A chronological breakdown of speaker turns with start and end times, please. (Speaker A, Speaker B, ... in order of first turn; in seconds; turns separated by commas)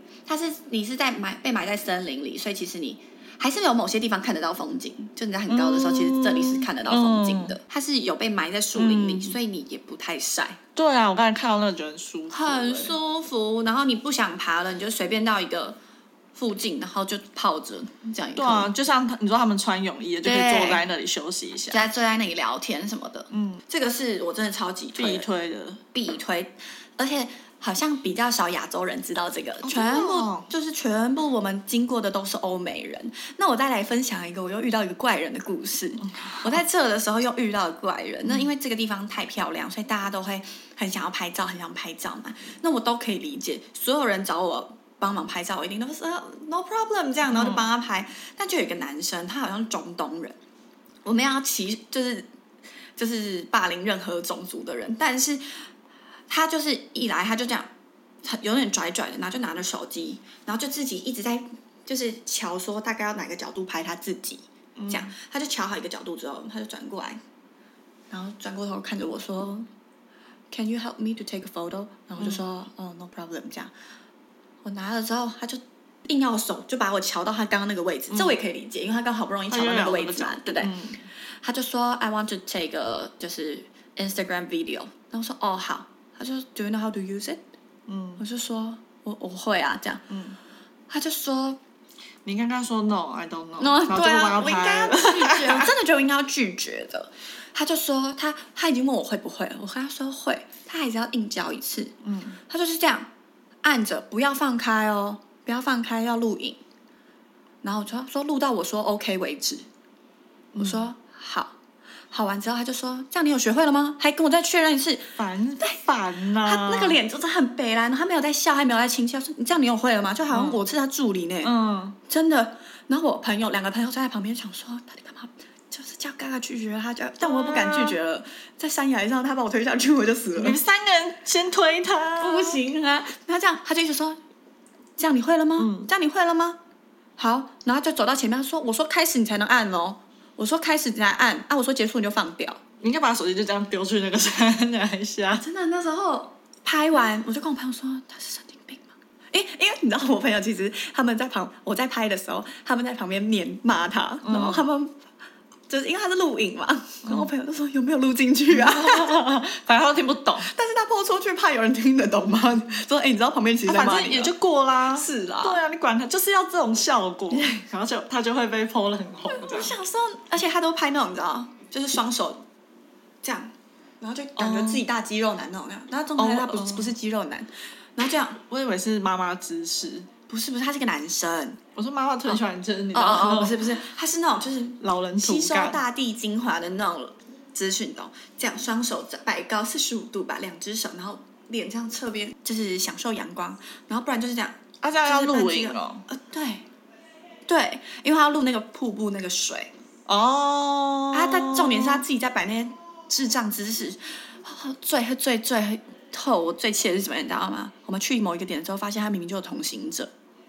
Speaker A: 0.3-10.6, Speaker B: 5.5-7.6, Speaker B: 8.7-9.4, Speaker B: 10.8-12.9, Speaker A: 12.3-15.8, Speaker A: 16.3-18.7, Speaker B: 18.4-21.8, Speaker A: 20.2-20.8, Speaker A: 21.7-25.3, Speaker B: 23.3-23.6, Speaker B: 24.9-25.8, Speaker A: 25.9-50.4, Speaker B: 29.6-30.5, Speaker B: 36.0-36.6, Speaker B: 47.3-47.7, Speaker A: 51.0-52.3, Speaker A: 53.0-55.6, Speaker A: 56.3-57.7, Speaker A: 58.2-67.2, Speaker B: 64.8-65.1, Speaker A: 68.1-69.7, Speaker A: 70.5-73.7, Speaker A: 74.6-80.7, Speaker B: 78.1-78.4, Speaker B: 79.5-81.1, Speaker A: 81.4-87.4, Speaker B: 87.9-88.2, Speaker A: 88.2-90.0, Speaker B: 90.1-90.4, Speaker A: 90.9-91.6, Speaker B: 92.2-95.7, Speaker A: 93.6-101.9, Speaker B: 102.0-102.4, Speaker A: 102.5-103.1, Speaker A: 103.6-106.6, Speaker A: 107.6-109.7, Speaker B: 110.5-110.9, Speaker A: 110.6-111.6, Speaker A: 112.1-115.8, Speaker B: 115.2-117.0, Speaker A: 116.4-121.5, Speaker B: 120.3-120.6, Speaker B: 121.4-122.0, Speaker A: 122.1-130.6, Speaker B: 127.2-128.0, Speaker B: 130.3-132.6, Speaker A: 132.2-134.2, Speaker A: 135.0-136.6, Speaker B: 135.6-135.9, Speaker A: 137.2-142.6, Speaker B: 142.8-145.4, Speaker A: 145.3-154.9, Speaker B: 154.2-154.7, Speaker A: 155.7-159.2, Speaker B: 158.5-160.5, Speaker A: 160.4-164.3, Speaker B: 163.7-169.8, Speaker A: 164.9-165.6, Speaker A: 167.3-167.6, Speaker A: 169.3-172.4, Speaker A: 173.2-178.4, Speaker B: 174.3-174.8, Speaker B: 176.2-176.9, Speaker B: 178.4-180.1, Speaker A: 180.3-181.6, Speaker B: 181.7-183.8, Speaker A: 182.9-196.6, Speaker B: 184.8-185.8, Speaker B: 194.8-196.1, Speaker A: 197.5-199.7, Speaker B: 200.1-202.0, Speaker A: 201.1-210.1